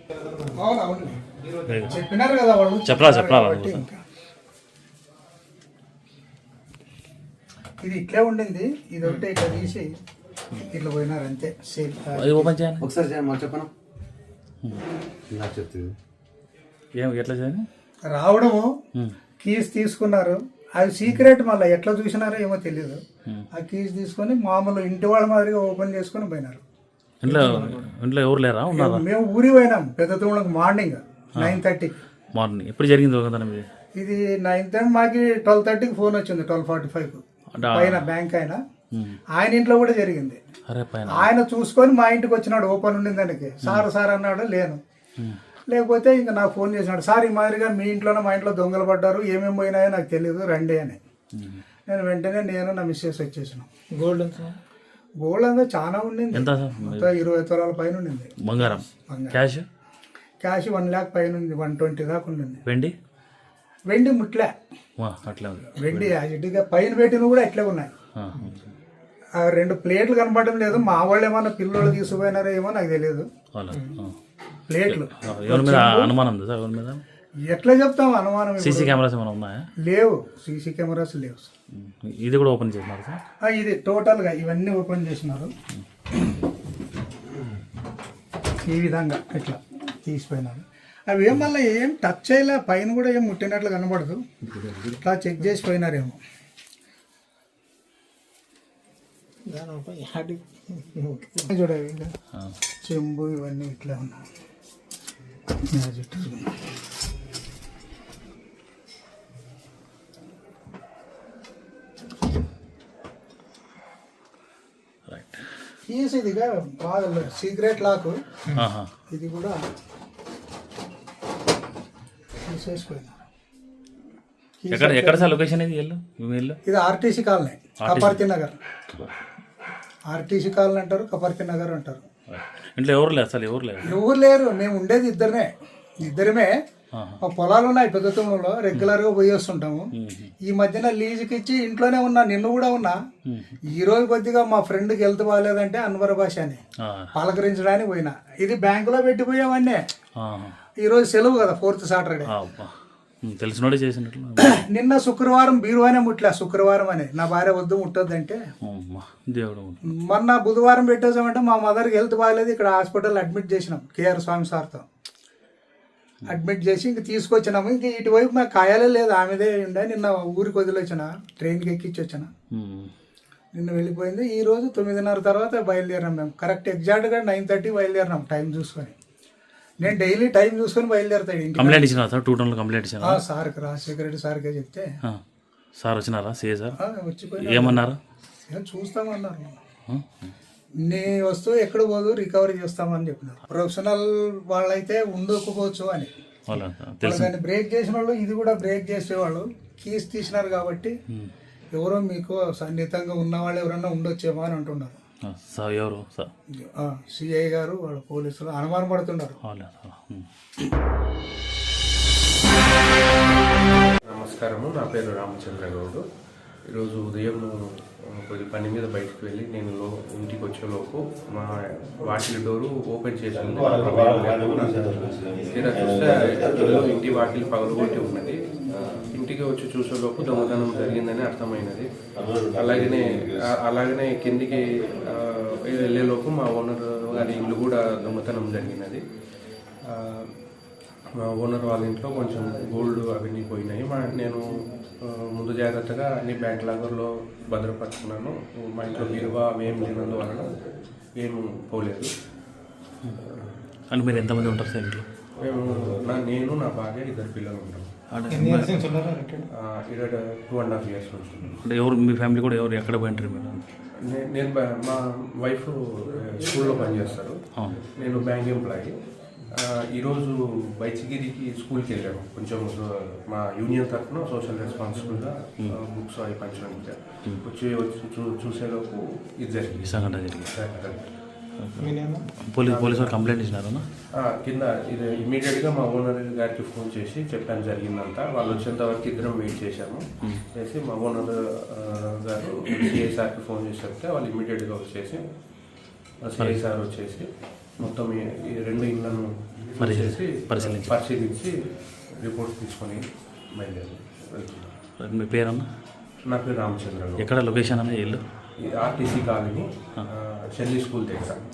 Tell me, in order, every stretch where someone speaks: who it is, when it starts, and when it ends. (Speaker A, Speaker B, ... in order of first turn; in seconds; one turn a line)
Speaker A: 0.4-1.3
Speaker B: 1.6-2.0
Speaker A: 1.8-4.0
Speaker B: 2.9-3.9
Speaker A: 7.8-9.9
Speaker A: 10.6-12.5
Speaker B: 12.1-12.9
Speaker C: 12.8-13.7
Speaker C: 15.3-15.9
Speaker B: 17.0-17.7
Speaker A: 18.1-18.8
Speaker A: 19.4-23.0
Speaker A: 23.5-26.6
Speaker B: 27.2-29.1
Speaker A: 28.7-32.0
Speaker B: 31.4-31.6
Speaker B: 32.4-33.7
Speaker A: 34.0-38.6
Speaker B: 37.5-38.1
Speaker B: 38.9-39.2
Speaker A: 39.3-40.4
Speaker B: 40.7-41.3
Speaker A: 41.1-44.8
Speaker A: 45.7-51.0
Speaker B: 51.3-51.6
Speaker A: 51.9-53.7
Speaker D: 54.0-54.6
Speaker A: 55.2-58.3
Speaker B: 56.3-57.1
Speaker B: 58.4-59.7
Speaker A: 59.1-59.4
Speaker A: 60.4-62.6
Speaker B: 62.7-63.0
Speaker A: 63.9-64.5
Speaker B: 65.0-66.2
Speaker A: 65.8-67.9
Speaker B: 68.2-68.7
Speaker A: 69.4-73.3
Speaker B: 73.5-74.2
Speaker A: 74.7-76.1
Speaker B: 74.8-77.0
Speaker A: 77.5-79.0
Speaker B: 78.6-79.7
Speaker A: 79.8-81.5
Speaker B: 81.7-83.2
Speaker A: 83.4-85.5
Speaker A: 88.6-94.2
Speaker B: 94.4-95.0
Speaker A: 95.0-96.2
Speaker D: 99.5-101.4
Speaker A: 101.4-102.1
Speaker A: 102.8-104.2
Speaker A: 105.7-106.5
Speaker B: 115.1-115.5
Speaker A: 115.9-118.2
Speaker B: 118.5-118.9
Speaker A: 119.1-119.6
Speaker A: 122.4-123.2
Speaker A: 124.6-125.4
Speaker B: 124.7-126.6
Speaker A: 126.7-128.6
Speaker B: 127.8-128.2
Speaker A: 130.1-132.1
Speaker B: 132.3-134.0
Speaker A: 133.8-136.6
Speaker B: 136.9-137.2
Speaker A: 137.2-143.0
Speaker B: 139.9-140.3
Speaker B: 143.2-143.5
Speaker A: 143.7-146.6
Speaker B: 146.8-147.1
Speaker A: 147.1-149.8
Speaker B: 150.2-150.6
Speaker A: 150.8-152.3
Speaker B: 152.3-154.6
Speaker A: 154.4-158.4
Speaker B: 158.6-159.9
Speaker A: 159.8-164.8
Speaker A: 166.3-172.3
Speaker B: 172.5-172.9
Speaker A: 173.6-178.9
Speaker A: 179.8-181.9
Speaker B: 181.6-183.2
Speaker A: 183.0-184.9
Speaker B: 185.8-186.8
Speaker A: 186.8-187.8
Speaker B: 187.4-188.0
Speaker A: 188.5-189.6
Speaker B: 189.9-190.3
Speaker A: 190.8-196.1
Speaker B: 196.5-197.3
Speaker A: 197.0-200.9
Speaker A: 201.7-205.0
Speaker B: 205.2-206.3
Speaker A: 206.6-209.4
Speaker B: 209.4-210.3
Speaker E: 214.1-216.0
Speaker E: 216.7-239.0
Speaker C: 223.4-226.9
Speaker C: 232.2-233.5
Speaker E: 239.8-240.3
Speaker E: 241.2-244.5
Speaker E: 245.0-250.6
Speaker E: 251.2-252.1
Speaker E: 253.3-253.6
Speaker B: 253.9-255.1
Speaker E: 255.4-257.9
Speaker B: 258.1-258.9
Speaker D: 258.3-259.5
Speaker E: 259.5-261.6
Speaker B: 261.6-263.6
Speaker E: 264.1-269.0
Speaker B: 267.6-267.9
Speaker E: 269.5-281.1
Speaker B: 279.8-280.6
Speaker B: 281.6-283.8
Speaker D: 281.8-282.2
Speaker E: 282.7-283.2
Speaker E: 284.2-295.3
Speaker E: 296.2-301.5
Speaker B: 299.8-300.9
Speaker E: 302.1-304.8
Speaker B: 305.0-305.7
Speaker E: 306.3-307.3
Speaker B: 307.2-308.2
Speaker E: 308.6-311.4